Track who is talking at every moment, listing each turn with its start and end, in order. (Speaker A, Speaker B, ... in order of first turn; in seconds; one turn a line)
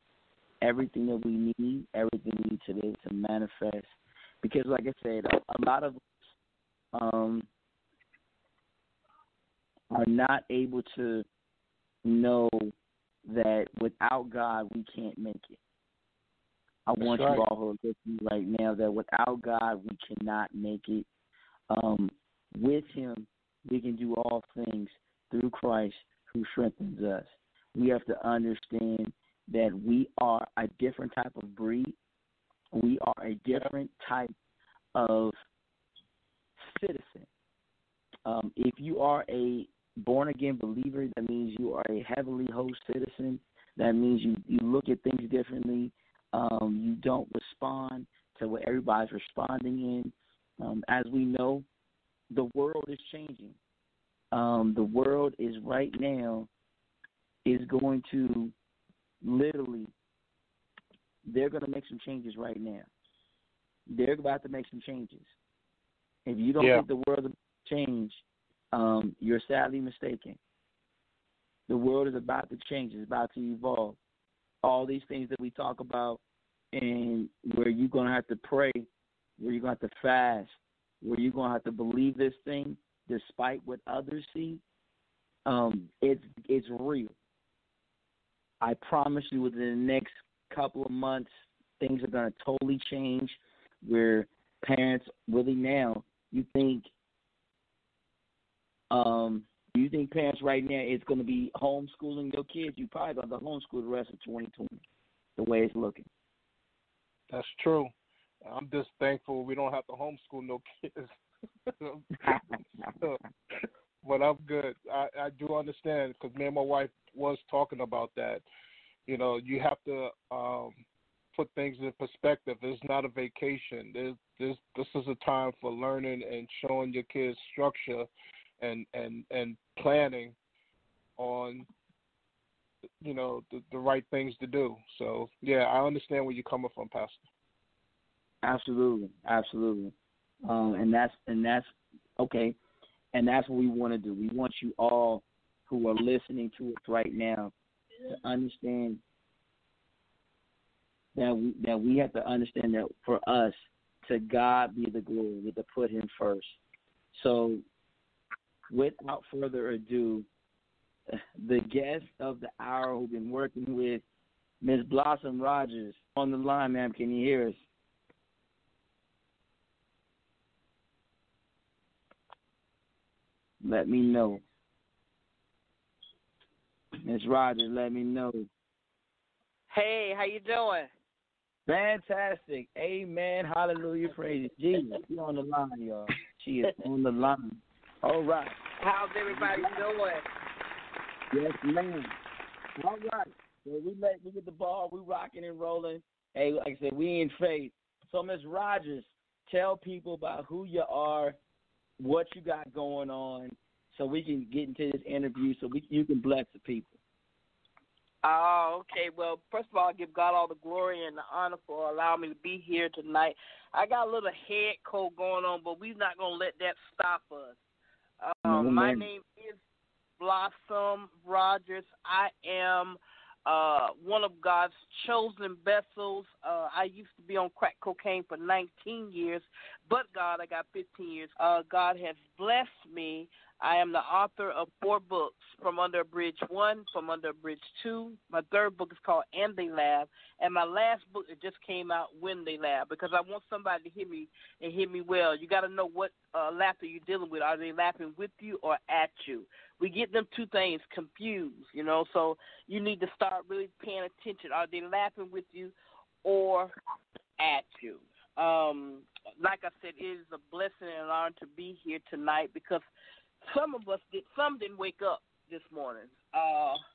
Speaker A: 0.6-6.0
Speaker A: 6.9-7.5
Speaker A: 9.9-11.2
Speaker A: 12.0-12.7
Speaker A: 13.2-15.6
Speaker A: 16.9-21.1
Speaker B: 17.0-17.4
Speaker A: 21.7-31.9
Speaker A: 32.7-34.3
Speaker A: 34.9-35.3
Speaker A: 36.6-37.3
Speaker A: 38.2-51.6
Speaker A: 52.3-53.5
Speaker A: 54.3-56.5
Speaker A: 57.4-58.5
Speaker A: 59.2-59.9
Speaker A: 61.2-62.9
Speaker A: 63.9-65.3
Speaker A: 66.2-70.4
Speaker B: 66.6-66.8
Speaker A: 71.7-74.0
Speaker A: 74.6-76.2
Speaker A: 76.7-78.9
Speaker A: 79.4-84.6
Speaker A: 85.5-87.1
Speaker A: 88.6-96.9
Speaker A: 98.9-104.8
Speaker A: 105.4-106.1
Speaker B: 107.3-107.9
Speaker B: 108.5-111.1
Speaker B: 111.7-112.1
Speaker A: 112.3-112.9
Speaker B: 114.0-118.4
Speaker B: 119.0-120.8
Speaker B: 121.3-128.1
Speaker B: 128.6-130.3
Speaker B: 131.2-131.7
Speaker B: 133.0-137.2
Speaker A: 138.4-139.9
Speaker A: 140.4-142.6
Speaker A: 143.1-147.5
Speaker A: 148.1-149.0
Speaker A: 151.1-156.6
Speaker A: 157.1-157.6
Speaker A: 158.7-160.3
Speaker A: 161.1-164.0
Speaker A: 164.6-167.6
Speaker A: 173.6-174.4
Speaker A: 177.0-178.5
Speaker C: 179.7-180.9
Speaker A: 181.7-188.6
Speaker C: 188.8-190.2
Speaker A: 189.3-189.8
Speaker A: 191.3-192.1
Speaker A: 192.8-201.4
Speaker A: 202.0-206.9
Speaker C: 208.2-217.6
Speaker C: 218.2-219.6
Speaker A: 218.4-219.1
Speaker C: 220.2-256.7
Speaker C: 257.4-262.9
Speaker C: 263.4-266.8